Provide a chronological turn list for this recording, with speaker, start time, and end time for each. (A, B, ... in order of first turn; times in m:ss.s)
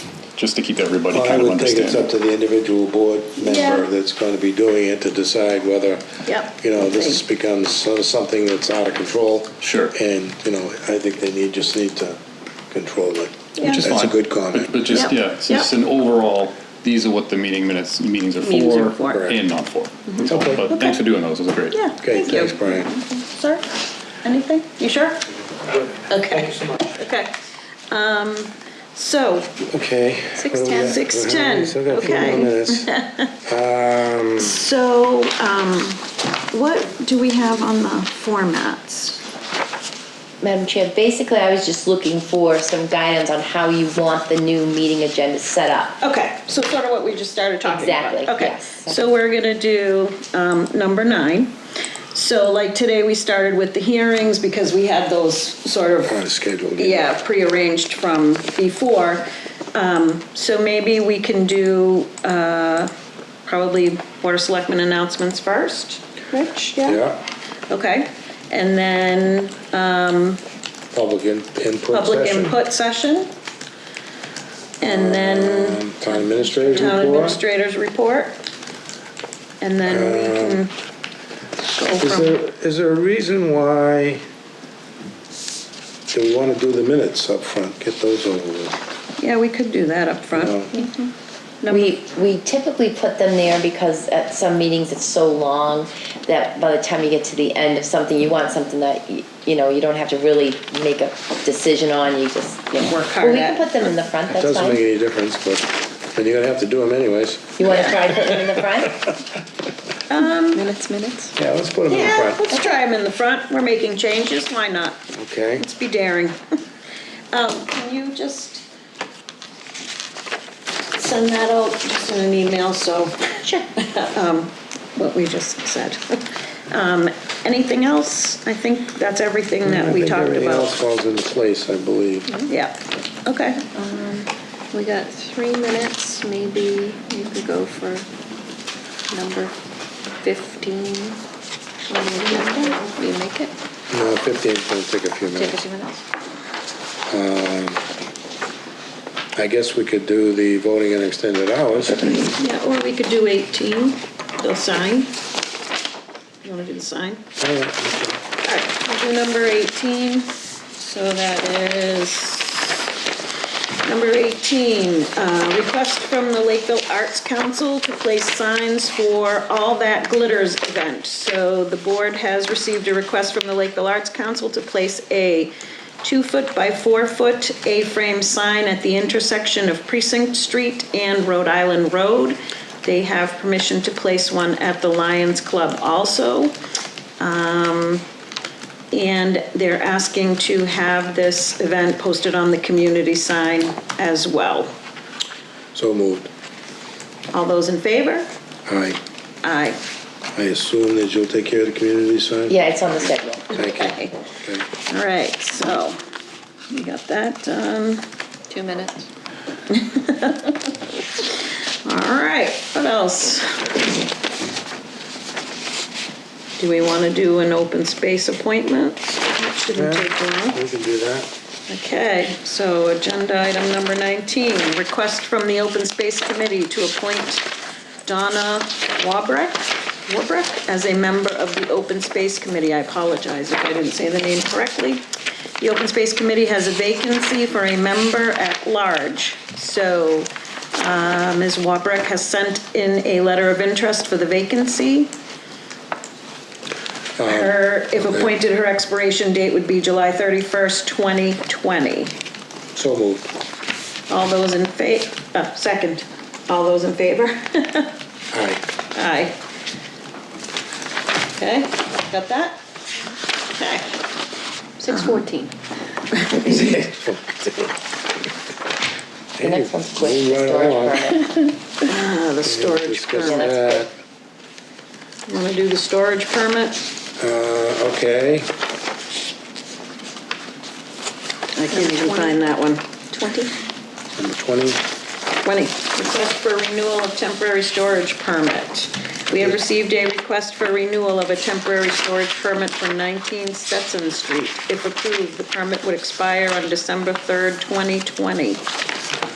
0:00.4-0:02.1 A
0:01.1-0:06.0 B
0:03.4-0:03.9 C
0:06.2-0:07.2 C
0:06.6-0:12.2 B
0:09.6-0:10.0 A
0:12.7-0:14.7 B
0:13.6-0:13.9 C
0:13.6-0:21.8 A
0:14.9-0:15.7 C
0:18.4-0:19.3 C
0:19.1-0:19.4 B
0:20.1-0:21.0 C
0:20.3-0:20.6 B
0:21.7-0:23.7 C
0:22.0-0:22.9 B
0:24.2-0:25.2 C
0:26.1-0:27.4 C
0:27.9-0:29.6 C
0:29.7-0:32.9 B
0:30.4-0:31.0 D
0:30.7-0:33.3 C
0:31.9-0:32.5 D
0:33.4-0:34.6 B
0:34.4-0:39.2 C
0:40.4-0:46.0 E
0:46.0-0:51.6 C
0:47.6-0:49.0 E
0:52.1-0:56.2 C
0:56.1-0:57.1 B
0:56.8-1:02.9 C
1:03.4-1:07.0 C
1:06.8-1:07.2 B
1:07.7-1:10.4 C
1:10.9-1:12.6 B
1:11.9-1:13.3 C
1:14.8-1:18.4 C
1:14.8-1:17.4 B
1:19.6-1:20.7 C
1:19.8-1:20.6 B
1:21.6-1:22.4 C
1:22.0-1:24.2 B
1:26.1-1:28.8 B
1:29.2-1:31.1 C
1:30.3-1:30.7 B
1:31.6-1:32.0 C
1:31.7-1:44.8 E
1:42.8-1:43.7 C
1:44.3-1:48.4 B
1:47.6-1:49.1 E
1:47.6-1:48.0 C
1:50.1-1:50.6 C
1:50.5-1:51.4 D
1:51.4-1:52.4 B
1:51.9-1:55.0 C
1:55.1-1:55.6 B
1:55.6-1:56.4 C
1:57.3-1:58.7 C
2:00.9-2:10.8 C
2:09.6-2:12.4 B
2:12.5-2:13.6 C
2:13.8-2:18.0 D
2:19.1-2:19.5 D
2:20.2-2:21.2 D
2:21.9-2:23.5 D
2:22.2-2:22.8 C
2:23.9-2:25.6 B
2:25.3-2:26.0 D
2:27.1-2:27.8 B
2:29.4-2:32.2 B
2:32.4-2:35.2 C
2:36.4-2:37.2 C
2:37.4-2:38.2 B
2:38.4-2:42.9 C
2:43.8-3:06.6 C
3:07.2-3:08.0 C
3:08.9-3:14.7 C
3:15.7-3:16.3 B
3:17.3-3:18.3 C
3:18.7-3:19.0 B
3:19.4-3:19.8 C
3:20.4-3:22.6 B
3:22.5-3:23.5 E
3:23.5-3:24.2 C
3:23.5-3:24.7 B
3:24.9-3:26.0 C
3:26.7-3:28.0 C
3:28.5-3:29.1 D
3:29.7-3:33.9 C
3:36.6-3:40.6 C
3:39.8-3:41.3 B
3:41.7-3:47.5 C
3:48.0-3:55.1 C
3:55.6-4:05.1 C
4:07.2-4:08.3 B
4:07.3-4:12.2 C
4:12.8-4:13.3 B
4:14.1-4:17.9 C
4:18.3-4:18.6 B
4:18.9-4:19.4 C
4:21.4-4:22.6 C
4:23.5-4:24.0 C
4:24.8-4:25.5 D
4:25.0-4:25.2 C
4:26.3-4:26.6 C
4:26.4-4:27.7 B
4:29.4-4:31.1 B
4:29.4-4:31.3 E
4:31.9-4:33.7 C
4:32.4-4:33.9 B
4:33.2-4:33.9 E
4:35.3-4:36.8 C
4:37.2-4:38.5 B
4:41.5-4:42.9 C
4:41.7-4:42.4 D
4:43.1-4:43.5 D
4:44.2-4:44.8 B
4:45.4-4:58.6 C